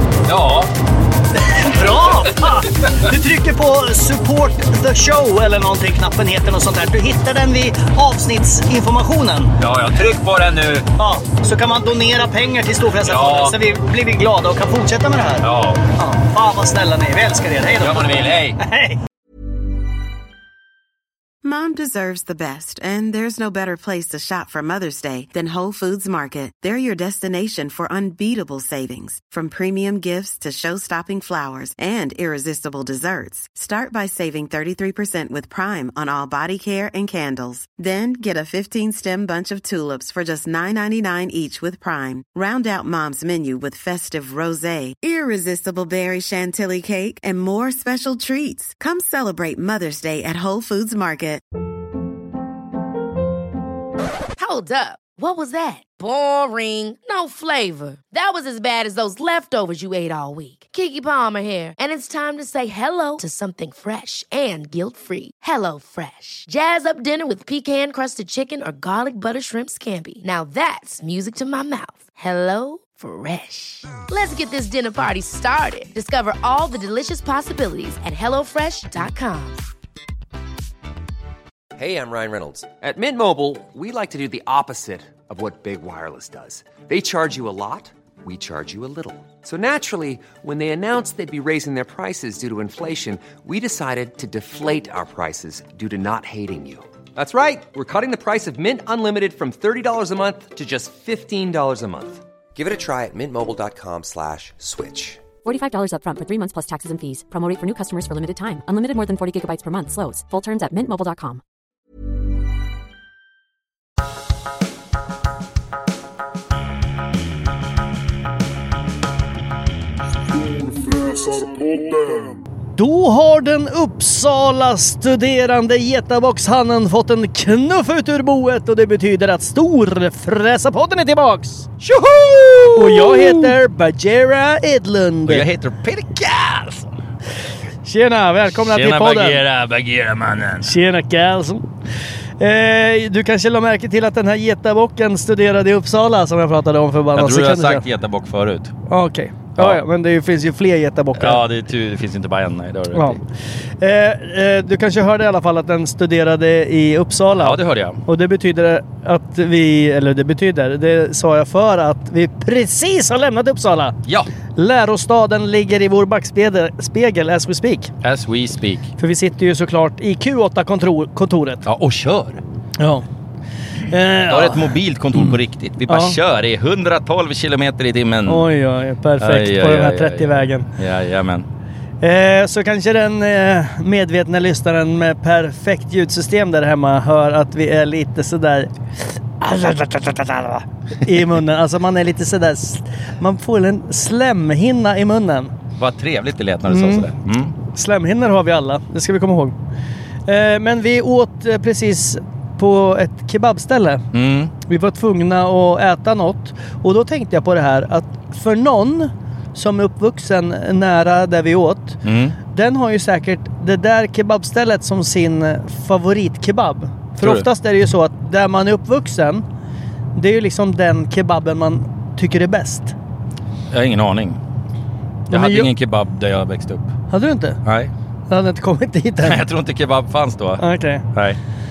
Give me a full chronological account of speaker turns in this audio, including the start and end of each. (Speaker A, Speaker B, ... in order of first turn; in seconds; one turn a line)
Speaker A: 0.3-0.7
Speaker B: 1.5-9.6
Speaker A: 1.9-3.1
Speaker A: 9.6-10.9
Speaker B: 11.0-18.1
Speaker A: 13.0-13.6
Speaker A: 15.4-15.9
Speaker A: 17.8-18.6
Speaker B: 18.6-19.0
Speaker C: 21.4-51.4
Speaker D: 54.4-79.7
Speaker E: 81.8-105.3
Speaker F: 105.4-111.4
Speaker B: 122.8-131.7
Speaker A: 131.8-133.6
Speaker B: 132.8-135.4
Speaker A: 135.3-136.9
Speaker B: 137.8-139.4
Speaker A: 138.6-140.8
Speaker B: 140.6-141.7
Speaker B: 142.4-147.8
Speaker A: 147.1-148.7
Speaker B: 148.9-151.4
Speaker A: 149.6-149.8
Speaker A: 151.2-153.2
Speaker B: 152.9-153.2
Speaker B: 153.8-163.9
Speaker A: 157.4-158.0
Speaker B: 164.6-167.9
Speaker A: 168.0-168.9
Speaker B: 169.0-171.7
Speaker A: 171.7-172.4
Speaker B: 172.8-173.0
Speaker B: 173.9-175.3
Speaker A: 174.2-178.5
Speaker B: 175.9-176.2
Speaker B: 178.3-180.7
Speaker A: 179.2-181.5
Speaker B: 182.0-188.7
Speaker B: 189.4-195.5
Speaker A: 195.8-197.6
Speaker B: 196.7-197.1
Speaker B: 197.7-199.5
Speaker B: 200.3-204.0
Speaker A: 204.1-204.5
Speaker B: 204.6-219.4
Speaker A: 212.0-212.4
Speaker A: 217.2-217.5
Speaker B: 220.2-222.9
Speaker A: 223.7-224.4
Speaker B: 225.3-225.7
Speaker A: 225.3-226.9
Speaker B: 227.1-227.6
Speaker A: 227.7-227.9
Speaker B: 228.3-229.4
Speaker A: 229.2-231.4
Speaker B: 230.6-231.1